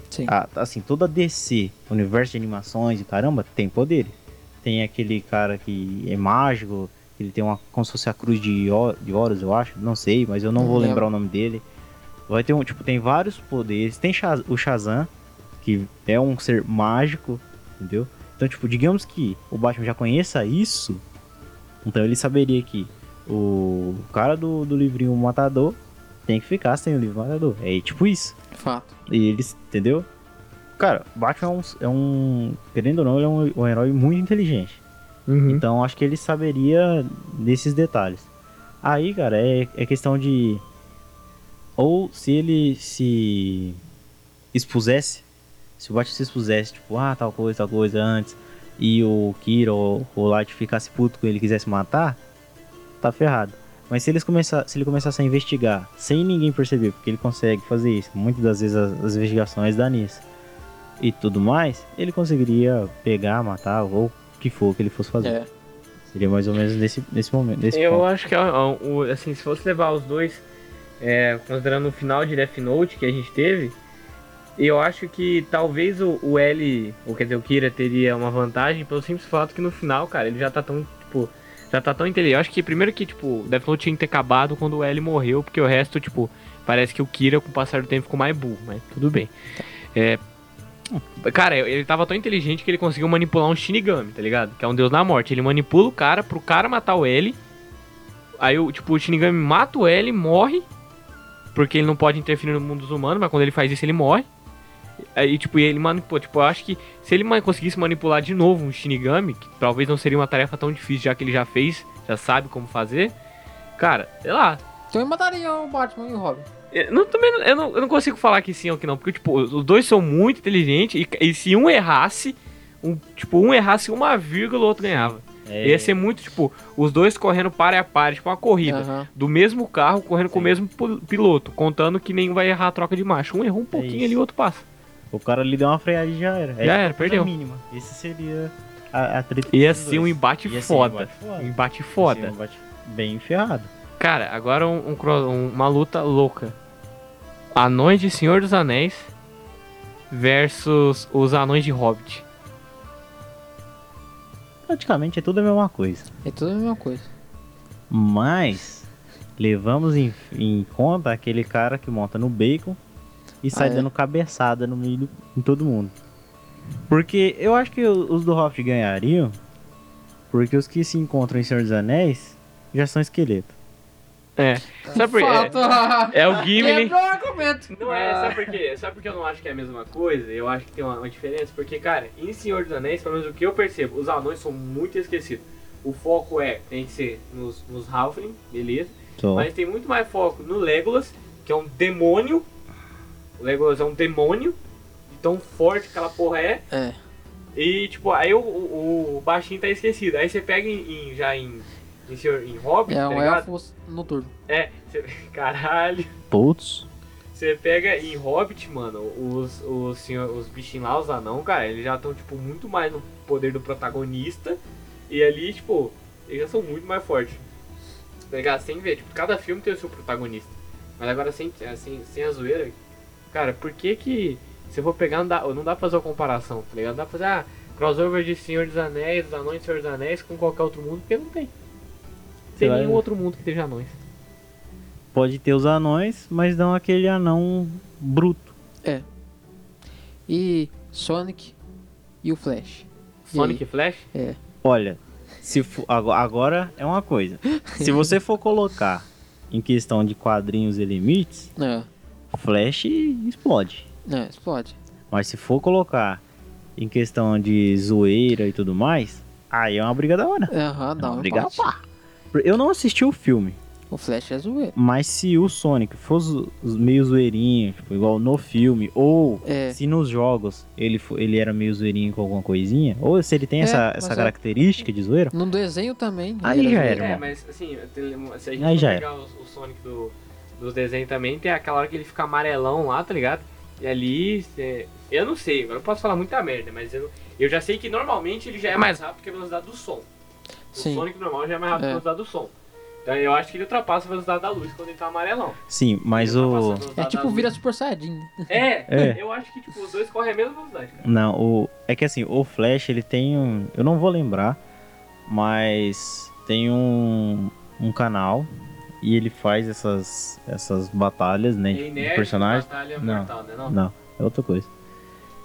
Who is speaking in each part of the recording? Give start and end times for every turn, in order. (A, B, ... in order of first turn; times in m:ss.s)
0:00.3-0:11.6 A
0:10.6-0:11.1 B
0:12.3-0:15.1 A
0:15.6-0:21.0 A
0:21.8-0:28.4 A
0:28.5-0:29.0 B
0:29.1-0:30.1 A
0:30.8-0:34.8 A
0:35.3-0:35.6 C
0:35.5-0:38.3 A
0:38.8-0:40.6 A
0:41.8-0:43.8 A
0:44.5-0:45.2 A
0:45.8-0:52.2 A
0:53.0-1:00.2 A
1:01.0-1:05.4 A
1:05.2-1:05.5 B
1:06.1-1:08.0 A
1:07.7-1:10.4 C
1:11.0-1:13.8 C
1:14.6-1:29.3 C
1:30.0-1:30.2 C
1:31.2-1:37.4 C
1:38.4-1:40.7 C
1:41.6-1:44.3 C
1:45.2-1:53.1 C
1:53.8-1:54.6 C
1:54.9-1:56.5 B
1:56.7-2:14.6 C
2:04.9-2:06.0 A
2:08.6-2:09.1 B
2:10.3-2:10.6 A
2:13.7-2:14.2 A
2:15.1-2:23.7 A
2:16.6-2:17.3 C
2:19.5-2:22.3 C
2:24.0-2:26.6 C
2:27.6-2:29.1 C
2:30.1-2:32.2 C
2:34.7-2:36.1 A
2:36.2-2:37.1 B
2:37.9-2:42.8 A
2:43.4-2:45.9 A
2:43.5-2:43.9 B
2:46.9-2:49.3 A
2:50.3-2:53.5 A
2:54.4-2:57.0 C
2:54.8-2:58.6 B
2:57.7-3:12.5 C
3:09.2-3:09.5 A
3:13.4-3:14.6 C
3:15.1-3:16.6 C
3:16.7-3:17.0 B
3:17.6-3:23.5 C
3:22.9-3:24.3 B
3:24.5-3:26.1 C
3:26.3-3:26.9 A
3:27.3-3:37.4 C
3:38.3-3:42.8 C
3:43.3-3:51.5 C
3:52.6-3:54.0 C
3:52.6-3:53.0 A
3:55.1-3:58.5 A
4:00.3-4:01.6 B
4:02.2-4:03.6 B
4:03.3-4:04.1 C
4:04.1-4:04.4 B
4:04.6-4:11.5 A
4:07.6-4:08.0 B
4:11.6-4:11.9 B
4:12.3-4:13.9 A
4:14.1-4:14.8 B
4:15.1-4:16.2 A
4:16.8-4:21.8 A
4:20.5-4:21.7 B
4:22.3-4:23.6 A
4:23.9-4:24.8 B
4:24.8-4:35.3 A
4:29.4-4:29.8 B
4:33.6-4:34.3 B
4:35.3-4:37.0 B
4:36.4-4:37.2 A
4:36.9-4:50.1 C
4:38.6-4:39.0 A
4:50.7-4:52.5 C
4:50.8-4:51.1 B
4:51.8-4:52.0 B
4:53.0-4:55.6 C
4:55.7-4:56.9 A
4:56.1-4:57.5 C
4:57.0-4:59.1 B
4:58.5-5:01.0 C
4:58.9-4:59.2 A
5:01.0-5:04.6 A
5:05.3-5:08.5 A
5:09.0-5:14.7 A
5:11.7-5:13.8 C